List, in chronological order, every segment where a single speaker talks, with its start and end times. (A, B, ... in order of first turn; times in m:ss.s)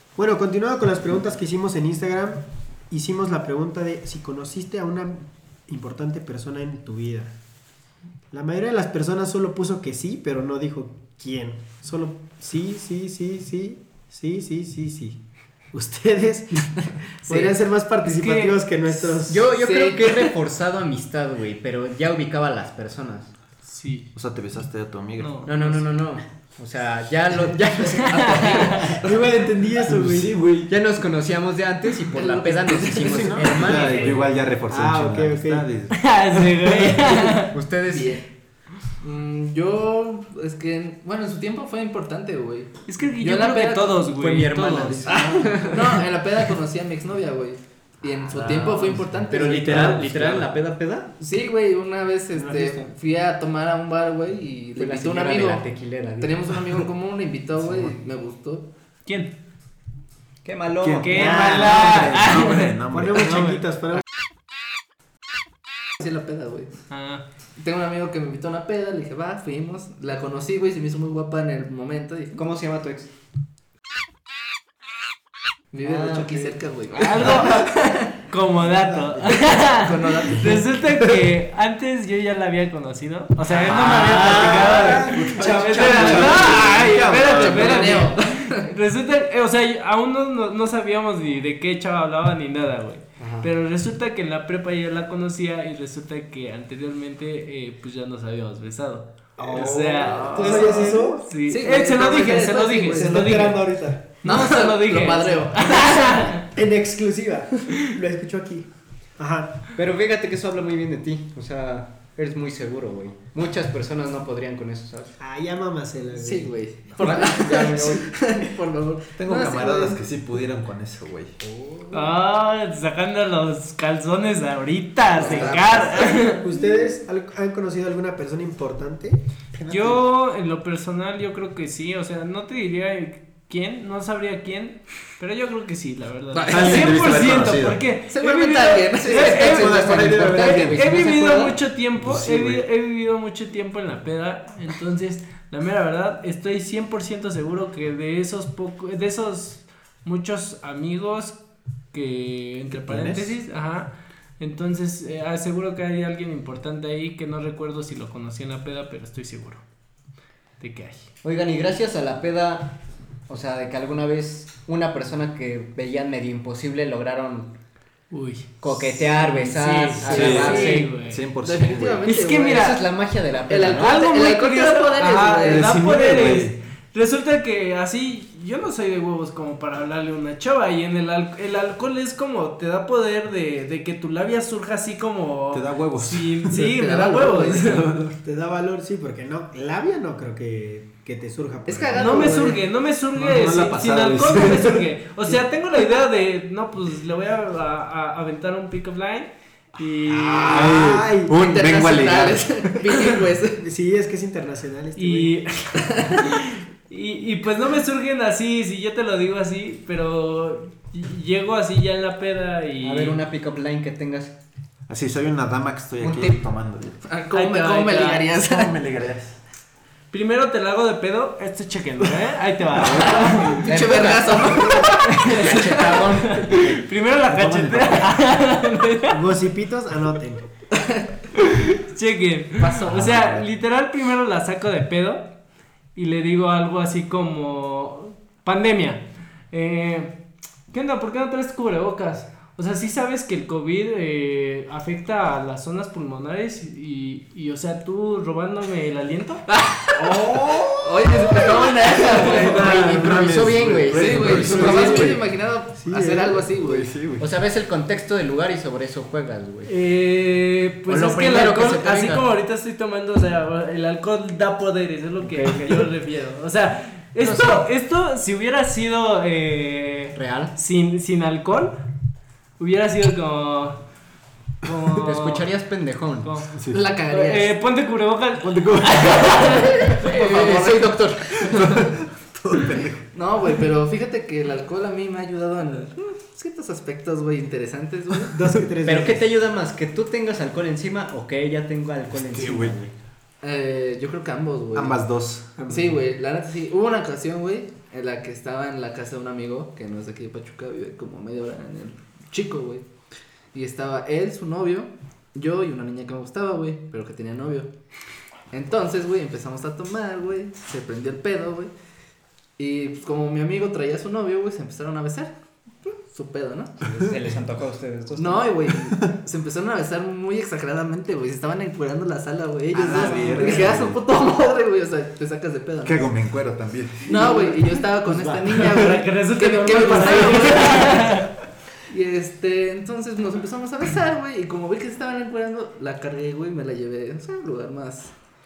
0:00.2-0:07.3 A
0:08.3-0:15.2 A
0:15.7-0:19.5 A
0:17.3-0:17.5 B
0:18.0-0:18.6 C
0:19.2-0:23.3 D
0:19.5-0:20.3 B
0:23.7-0:24.1 C
0:24.1-0:25.6 E
0:25.2-0:25.8 C
0:25.4-0:28.9 D
0:28.0-0:29.2 B
0:28.1-0:28.9 C
0:29.0-0:30.4 A
0:29.8-0:30.7 E
0:30.7-0:34.2 D
0:32.1-0:34.3 B
0:33.0-0:36.0 E
0:34.7-0:35.7 A
0:35.9-0:37.5 C
0:36.9-0:38.2 D
0:37.9-0:38.2 B
0:39.0-0:44.0 B
0:42.9-0:45.1 C
0:44.1-0:46.0 D
0:45.1-0:50.0 B
0:45.1-0:45.6 E
0:49.3-0:51.1 D
0:49.4-0:50.5 E
0:51.2-0:55.7 B
0:52.3-0:52.9 A
0:54.8-0:56.5 D
0:56.2-0:58.7 B
0:59.0-0:59.3 C
1:00.4-1:02.2 D
1:00.8-1:03.4 E
1:01.0-1:03.6 C
1:01.2-1:02.1 A
1:02.9-1:04.0 A
1:06.0-1:06.7 B
1:06.9-1:07.2 C
1:07.6-1:12.4 B
1:12.3-1:13.1 D
1:15.7-1:18.1 B
1:15.8-1:16.6 D
1:16.9-1:43.7 C
1:18.8-1:19.1 A
1:19.3-1:20.7 B
1:23.5-1:27.9 E
1:23.8-1:27.0 A
1:26.2-1:28.6 B
1:33.2-1:33.5 D
1:39.4-1:41.2 A
1:40.0-1:43.3 B
1:42.9-1:44.1 A
1:44.2-1:46.5 C
1:44.2-1:46.3 B
1:46.5-1:49.6 A
1:49.7-1:55.2 D
1:55.2-1:56.5 A
1:56.1-2:00.0 B
1:57.0-1:58.2 D
1:59.2-2:01.4 E
2:01.5-2:01.9 A
2:01.9-2:06.5 C
2:05.2-2:06.2 B
2:05.2-2:05.6 A
2:06.2-2:09.2 A
2:09.6-2:10.0 E
2:09.7-2:31.4 C
2:16.3-2:17.0 B
2:16.5-2:17.8 E
2:18.1-2:19.6 B
2:19.1-2:21.6 D
2:19.2-2:20.9 E
2:22.0-2:22.6 E
2:31.9-2:39.6 C
2:32.8-2:33.4 E
2:40.6-2:41.1 C
2:41.2-2:47.5 D
2:48.1-2:51.2 C
2:48.6-2:50.9 D
2:50.0-2:52.1 E
2:50.1-2:50.8 B
2:51.4-2:52.8 B
2:52.0-2:52.8 C
2:52.3-2:53.8 D
2:53.5-2:55.8 B
2:53.7-3:07.9 C
2:55.4-2:56.6 E
3:05.5-3:06.6 E
3:06.5-3:07.8 B
3:07.6-3:08.2 E
3:08.2-3:12.5 A
3:11.7-3:12.6 B
3:12.0-3:20.7 C
3:13.1-3:14.9 E
3:20.1-3:22.9 E
3:20.3-3:21.3 A
3:21.4-3:23.6 B
3:23.6-3:25.3 A
3:25.0-3:33.2 C
3:25.8-3:26.2 B
3:32.8-3:34.3 D
3:34.9-3:37.0 E
3:36.0-3:36.3 D
3:37.0-3:38.7 B
3:37.3-3:38.2 C
3:38.4-3:39.4 E
3:40.1-3:43.6 C
3:42.7-3:43.5 E
3:42.9-3:46.1 B
3:43.3-3:46.8 D
3:45.0-3:49.2 C
3:47.3-3:48.1 E
3:49.1-3:50.4 A
3:50.7-3:51.1 B
3:51.3-3:55.3 C
3:52.6-3:53.2 B
3:53.0-3:53.4 E
3:55.9-4:00.2 C
4:00.7-4:09.4 C
4:09.5-4:12.8 B
4:10.0-4:11.5 E
4:12.0-4:15.2 E
4:12.1-4:12.8 C
4:12.2-4:15.1 D
4:13.8-4:16.9 B
4:14.4-4:15.2 A
4:15.7-4:16.5 A
4:16.6-4:17.3 E
4:17.2-4:19.7 D
4:19.6-4:31.8 C
4:20.9-4:22.3 D
4:25.2-4:25.8 D
4:27.2-4:27.6 D
4:30.1-4:30.5 D
4:32.6-4:33.8 C
4:34.6-4:35.5 C
4:35.0-4:36.3 D
4:36.2-4:36.6 C
4:36.7-4:37.6 B
4:37.1-4:40.2 C
4:38.4-4:39.6 E
4:39.8-4:41.9 D
4:40.0-4:41.0 B
4:41.4-4:43.0 E
4:43.1-4:48.4 B
4:48.3-4:49.2 A
4:48.8-4:52.9 D
4:52.2-4:52.8 E
4:53.4-4:55.0 B
4:54.7-4:55.5 E
4:55.6-4:56.0 A
4:55.7-5:02.8 B
5:03.5-5:07.7 B
5:08.5-5:11.7 B
5:12.6-5:16.8 B
5:16.8-5:18.6 D
5:18.2-5:26.1 B
5:22.7-5:24.0 E
5:22.9-5:23.7 A
5:25.8-5:27.3 E
5:27.0-5:31.1 B
5:27.1-5:28.5 A
5:28.5-5:31.3 C
5:31.9-5:38.1 B